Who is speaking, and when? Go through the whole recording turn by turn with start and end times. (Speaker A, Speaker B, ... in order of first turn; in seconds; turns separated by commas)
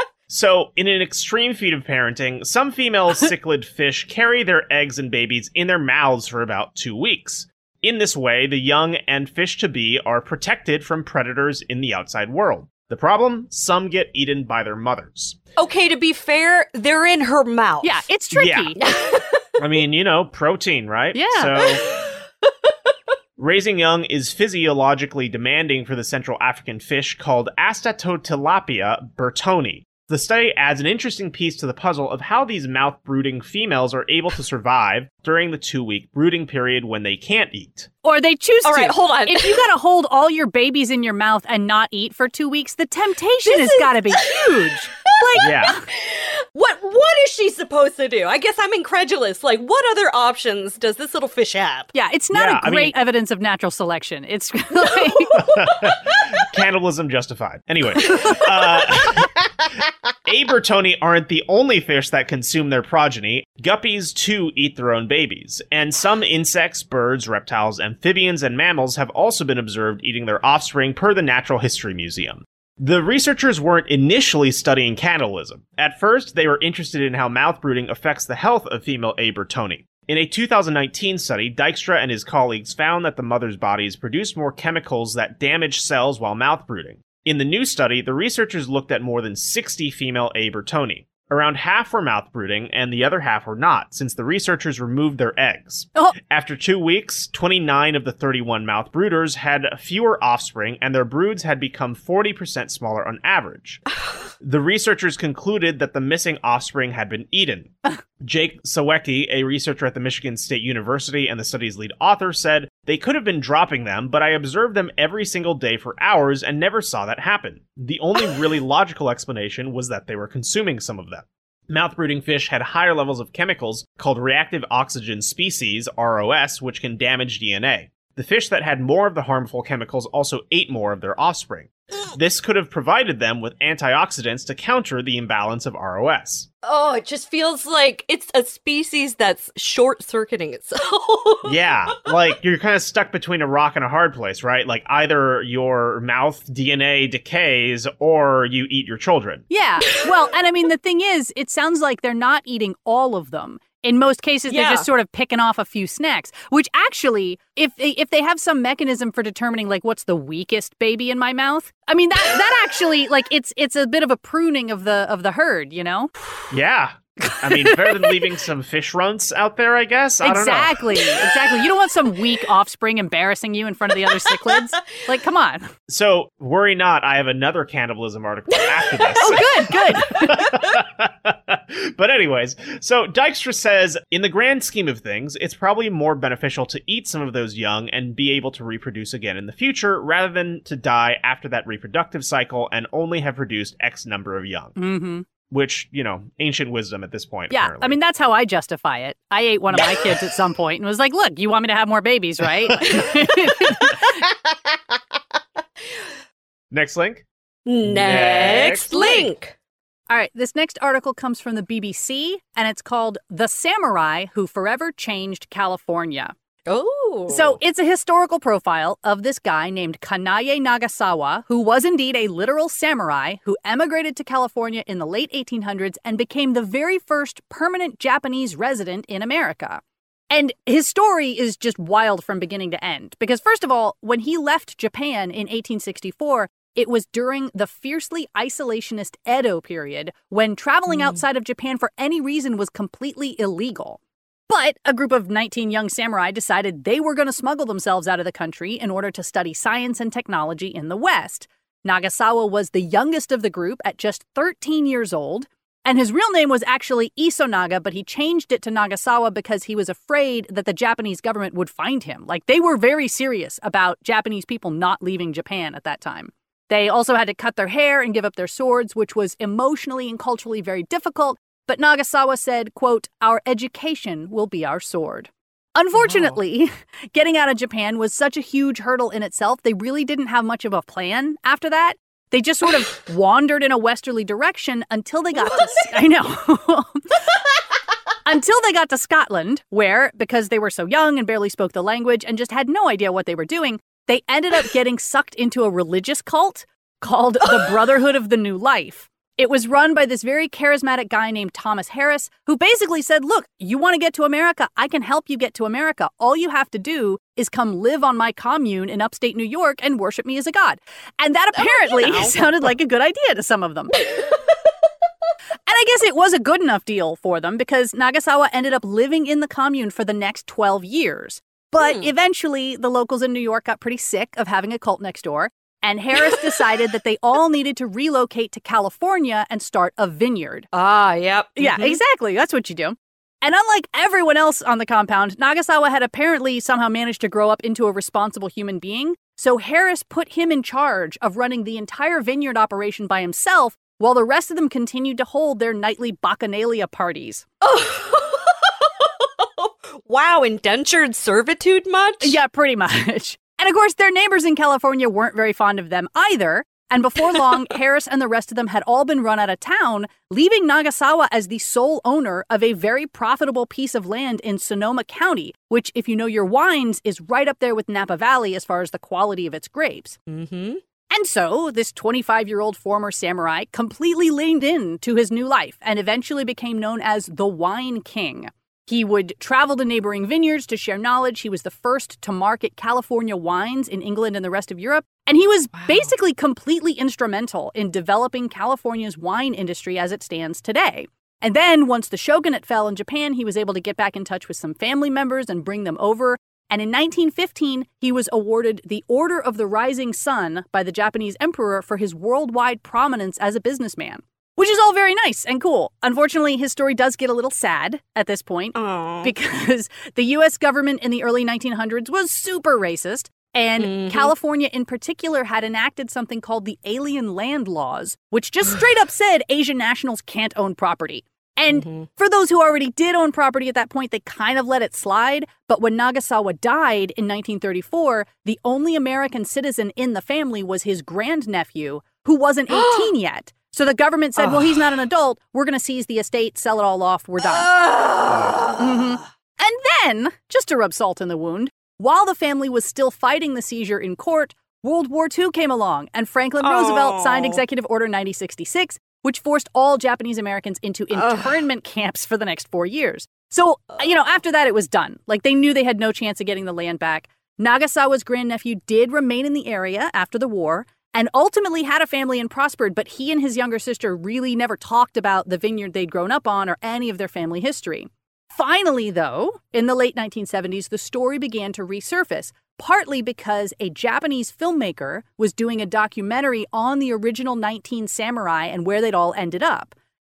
Speaker A: 0.3-15.4, Speaker B: 15.6-18.1, Speaker C: 17.8-18.8, Speaker A: 18.3-18.8, Speaker B: 18.8-19.4, Speaker A: 19.6-21.8, Speaker C: 21.1-21.6, Speaker B: 21.6-22.2, Speaker A: 23.4-37.9, Speaker C: 38.0-45.9, Speaker B: 38.6-39.7, Speaker B: 43.5-51.9, Speaker A: 45.4-45.8, Speaker C: 51.9-55.5, Speaker A: 52.3-53.0, Speaker B: 54.9-56.2, Speaker A: 55.4-59.7, Speaker B: 58.1-58.9, Speaker A: 60.3-103.8, Speaker A: 104.4-136.5, Speaker B: 136.6-142.1, Speaker A: 141.5-149.4, Speaker C: 149.5-166.1, Speaker B: 154.5-154.9, Speaker A: 166.5-170.8, Speaker C: 167.3-168.2, Speaker C: 170.2-175.7, Speaker B: 174.1-174.7, Speaker A: 175.9-194.8, Speaker B: 178.5-179.4, Speaker C: 179.2-180.6, Speaker C: 194.8-195.3, Speaker A: 195.5-198.0, Speaker C: 197.5-204.2, Speaker A: 202.8-203.1, Speaker A: 206.7-207.2, Speaker B: 207.7-209.5, Speaker A: 207.8-209.3, Speaker C: 210.1-216.3, Speaker B: 216.7-217.6, Speaker C: 217.3-287.3, Speaker B: 240.9-241.2, Speaker B: 285.5-285.8, Speaker C: 288.2-314.0, Speaker B: 297.5-297.8, Speaker B: 311.5-312.4, Speaker B: 314.1-314.4, Speaker C: 315.7-330.7, Speaker B: 321.8-322.1, Speaker B: 326.2-326.6, Speaker B: 330.7-332.0, Speaker C: 331.6-347.5, Speaker B: 347.6-352.4, Speaker C: 352.2-370.2, Speaker B: 370.3-370.8, Speaker C: 371.1-437.7, Speaker B: 385.8-386.1, Speaker B: 408.8-409.3, Speaker B: 413.8-414.3, Speaker B: 421.7-422.1, Speaker B: 432.7-433.1, Speaker B: 437.4-439.2, Speaker C: 438.8-479.9, Speaker B: 446.6-447.6, Speaker B: 451.1-451.6